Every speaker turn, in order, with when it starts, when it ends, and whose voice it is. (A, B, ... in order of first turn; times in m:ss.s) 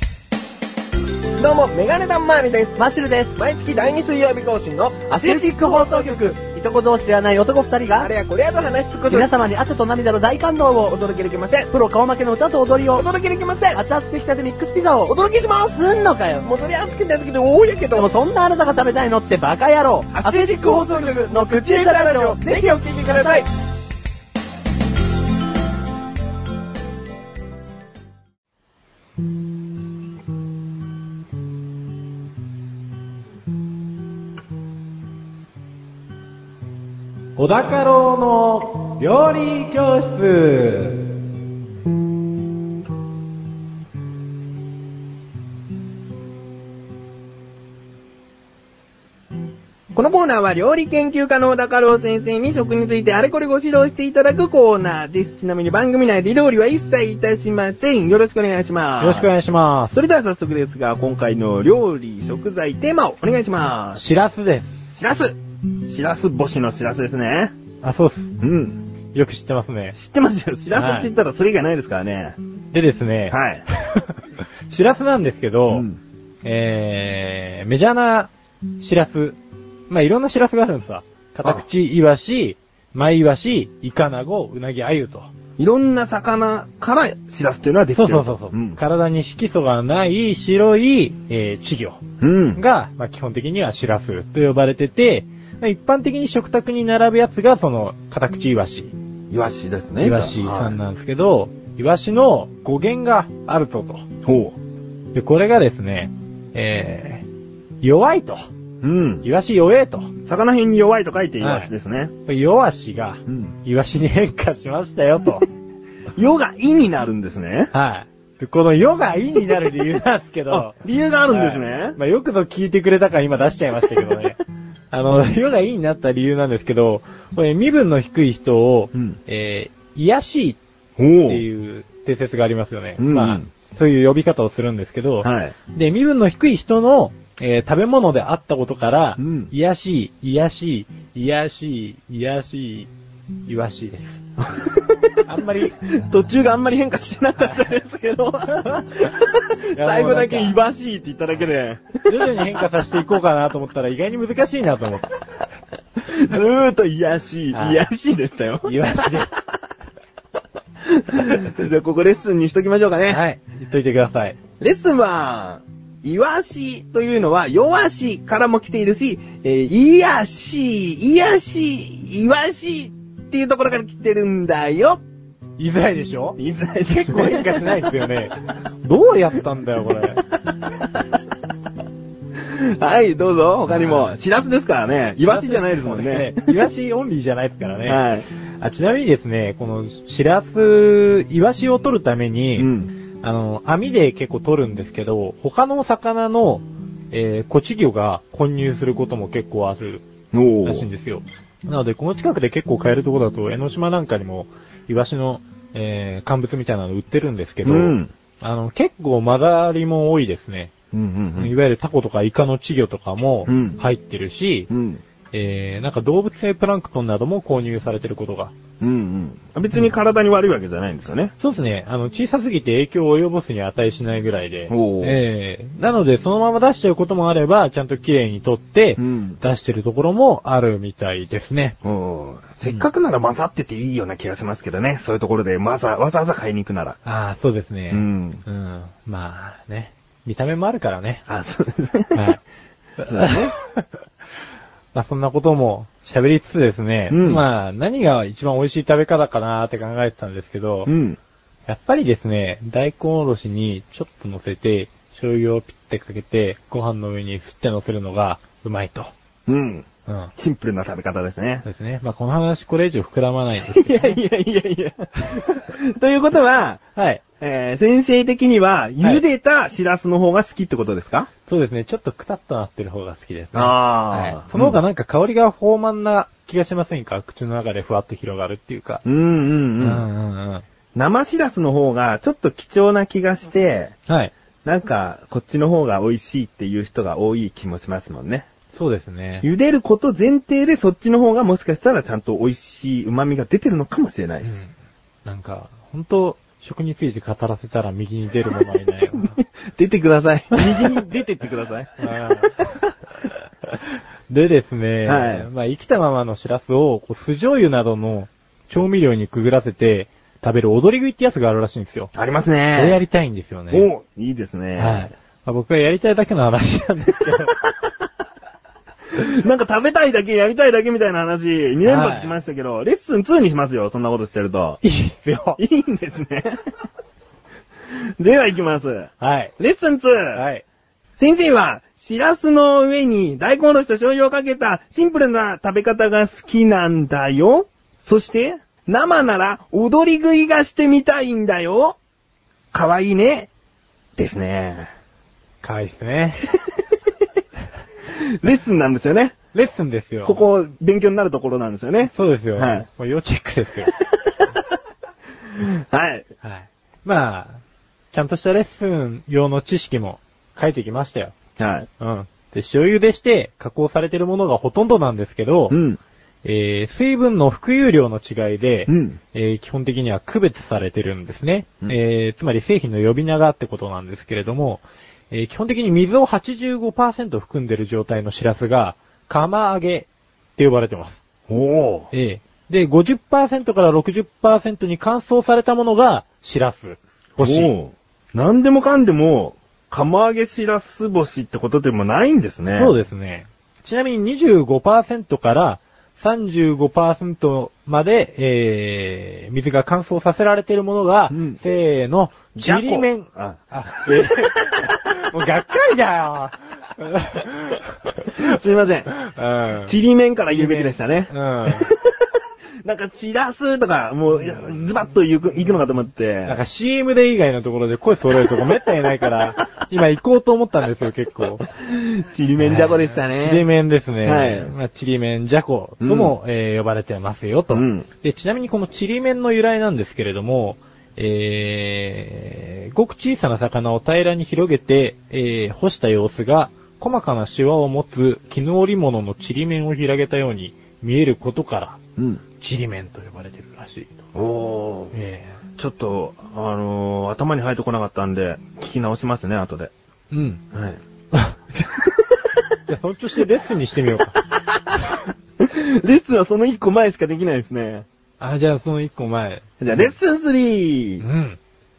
0:01.4-0:06.4 A
0:02.8-0:03.3 B
0:05.2-0:08.1 B
0:08.0-0:09.3 A
0:09.1-0:11.0 B
0:10.9-0:11.7 A
0:11.7-0:13.0 B
0:12.9-0:13.8 A
0:13.7-0:16.5 B
0:15.1-0:15.8 A
0:16.4-0:18.1 A
0:17.9-0:23.4 B
0:20.1-0:23.5 A
0:37.4-0:41.0 C
0:49.9-0:59.3 A
0:59.0-1:00.0 C
0:59.9-1:04.0 A
1:04.0-1:04.9 C
1:05.0-1:07.5 A
1:07.8-1:08.4 C
1:08.4-1:08.8 A
1:09.1-1:10.0 C
1:09.9-1:12.4 A
1:10.7-1:11.1 C
1:12.7-1:15.9 C
1:13.3-1:13.6 A
1:15.7-1:16.0 A
1:16.4-1:19.4 C
1:19.9-1:25.3 C
1:25.6-1:28.8 A
1:27.9-1:32.0 C
1:32.2-1:32.6 A
1:32.6-1:38.9 C
1:39.3-1:40.8 A
1:40.0-1:44.1 C
1:44.2-1:44.6 A
1:45.1-1:47.2 C
1:47.8-1:48.4 C
1:48.8-1:49.3 A
1:49.2-1:50.1 C
1:50.2-1:52.1 A
1:51.4-1:51.7 C
1:52.2-1:55.4 C
1:53.3-1:53.5 A
1:56.1-1:57.7 A
1:57.7-2:00.8 C
2:00.5-2:02.0 A
2:01.3-2:04.4 C
2:04.9-2:10.6 C
2:11.0-2:11.4 A
2:11.2-2:22.9 C
2:13.0-2:13.5 A
2:15.2-2:15.5 A
2:19.2-2:19.5 A
2:23.5-2:24.2 C
2:24.4-2:32.4 A
2:25.2-2:25.8 C
2:27.4-2:27.8 C
2:28.5-2:29.2 C
2:29.7-2:30.6 C
2:32.1-2:35.2 C
2:36.0-2:39.2 A
2:37.5-2:37.9 C
2:38.6-2:39.3 C
2:40.8-2:43.2 A
2:43.1-2:44.4 C
2:44.6-2:55.0 A
2:55.6-3:00.2 C
2:56.4-2:57.9 A
3:02.4-3:06.5 A
3:03.7-3:04.2 C
3:05.2-3:08.0 C
3:07.8-3:08.2 A
3:08.6-3:12.7 C
3:12.6-3:12.9 A
3:13.2-3:20.0 C
3:20.3-3:20.9 A
3:20.6-3:30.7 C
3:27.6-3:28.1 A
3:30.9-3:31.5 A
3:31.4-3:34.7 C
3:33.5-3:33.8 A
3:34.7-3:35.0 A
3:35.3-3:38.5 C
3:38.8-3:41.3 A
3:41.4-3:51.8 C
3:44.7-3:45.2 A
3:49.0-3:49.4 A
3:51.8-3:57.0 A
3:57.0-4:01.2 C
3:57.9-3:58.4 A
4:01.3-4:02.2 A
4:02.1-4:02.4 C
4:03.0-4:04.0 C
4:03.0-4:03.5 A
4:04.9-4:10.9 C
4:07.1-4:07.4 A
4:10.8-4:11.2 A
4:11.7-4:19.1 C
4:19.5-4:21.6 A
4:20.1-4:20.3 C
4:21.6-4:24.2 C
4:23.7-4:26.8 A
4:27.0-4:27.2 C
4:27.4-4:31.3 A
4:31.5-4:39.0 C
4:33.5-4:34.8 A
4:39.0-4:40.0 A
4:39.8-4:40.6 C
4:40.9-4:43.9 A
4:44.6-4:48.5 A
4:48.7-4:49.5 C
4:49.4-4:54.6 A
4:54.4-4:54.7 C
4:55.2-4:59.4 C
4:59.2-5:02.0 A
5:00.5-5:01.0 C
5:02.0-5:02.8 C
5:04.3-5:12.1 C
5:05.0-5:05.5 A
5:12.1-5:13.0 A
5:12.8-5:13.9 C
5:13.7-5:15.1 A
5:14.8-5:17.6 C
5:19.1-5:24.8 A
5:21.8-5:22.3 C
5:24.8-5:25.6 C
5:25.6-5:26.6 A
5:27.9-5:30.4 A
5:29.2-5:29.5 C
5:30.3-5:30.6 C
5:31.2-5:42.0 A
5:42.7-5:43.5 A
5:44.2-5:44.9 A
5:45.6-5:46.5 C
5:48.1-5:49.4 A
5:49.5-5:50.4 C
5:50.2-5:52.8 A
5:52.0-5:53.9 C
5:55.5-5:56.2 A
5:56.4-5:57.6 C
5:58.1-6:01.4 C
6:01.6-6:01.9 A
6:02.0-6:05.8 C
6:05.7-6:06.0 A
6:06.4-6:21.2 C
6:08.9-6:09.2 A
6:21.5-6:22.1 A
6:22.1-6:27.7 C
6:27.4-6:32.9 A
6:32.7-6:48.5 C
6:41.3-6:41.6 A
6:42.6-6:45.1 A
6:48.2-6:49.1 A
6:49.1-6:49.9 C
6:49.8-6:52.3 A
6:50.5-6:51.9 C
6:52.8-6:56.6 A
6:56.5-7:01.7 C
7:01.8-7:03.6 A
7:02.6-7:22.0 C
7:04.2-7:04.7 A
7:06.0-7:06.3 A
7:07.7-7:08.1 A
7:22.2-7:22.4 A
7:22.6-7:24.2 C
7:24.3-7:25.1 A
7:25.1-7:25.6 C
7:25.8-7:29.9 A
7:30.3-7:30.6 C
7:30.7-7:31.0 A
7:31.7-7:32.6 A
7:32.8-7:34.4 C
7:34.7-7:38.0 A
7:38.4-7:40.1 C
7:39.8-7:41.2 A
7:41.2-7:41.6 C